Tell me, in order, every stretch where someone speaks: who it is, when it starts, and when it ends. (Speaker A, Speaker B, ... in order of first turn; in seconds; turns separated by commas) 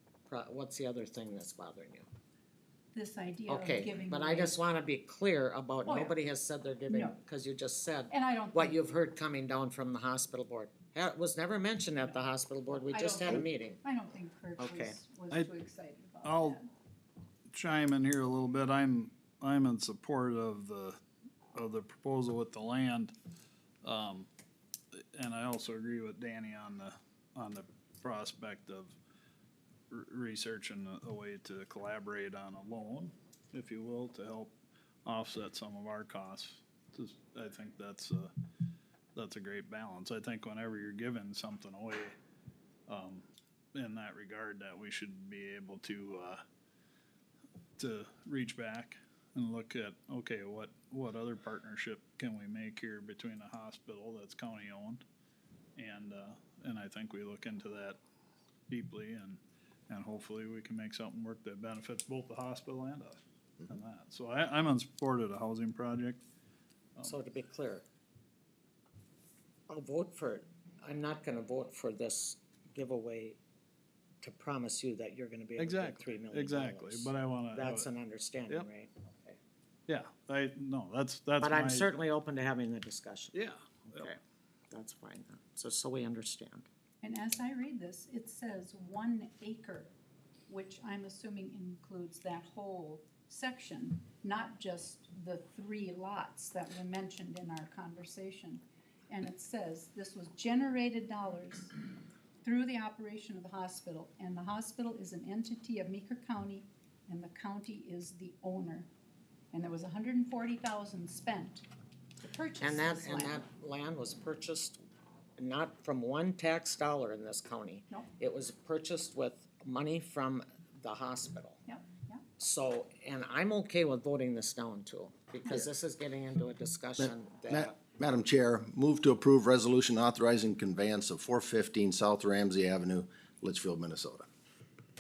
Speaker A: 0.3-2.1, Speaker B: 2.9-4.6, Speaker A: 3.5-13.8, Speaker B: 5.8-6.2, Speaker B: 6.9-7.2, Speaker B: 8.1-8.8, Speaker B: 12.9-16.7, Speaker A: 14.6-15.0, Speaker C: 16.2-16.6, Speaker C: 17.5-21.0, Speaker C: 21.6-23.1, Speaker C: 23.8-24.3, Speaker C: 25.0-29.0, Speaker C: 29.9-38.3, Speaker C: 39.1-42.1, Speaker C: 42.9-46.4, Speaker C: 47.8-55.0, Speaker C: 55.8-58.0, Speaker C: 58.7-66.2, Speaker A: 67.0-67.8, Speaker A: 69.7-73.4, Speaker A: 74.2-79.4, Speaker C: 75.6-77.9, Speaker C: 79.9-81.9, Speaker A: 81.4-84.2, Speaker C: 83.3-84.1, Speaker A: 84.7-86.7, Speaker B: 87.0-89.9, Speaker B: 90.5-101.8, Speaker B: 102.4-108.9, Speaker B: 109.5-111.7, Speaker B: 112.2-113.4, Speaker A: 112.6-114.8, Speaker A: 115.4-121.6, Speaker B: 121.7-122.2, Speaker A: 122.4-127.8, Speaker D: 127.0-134.3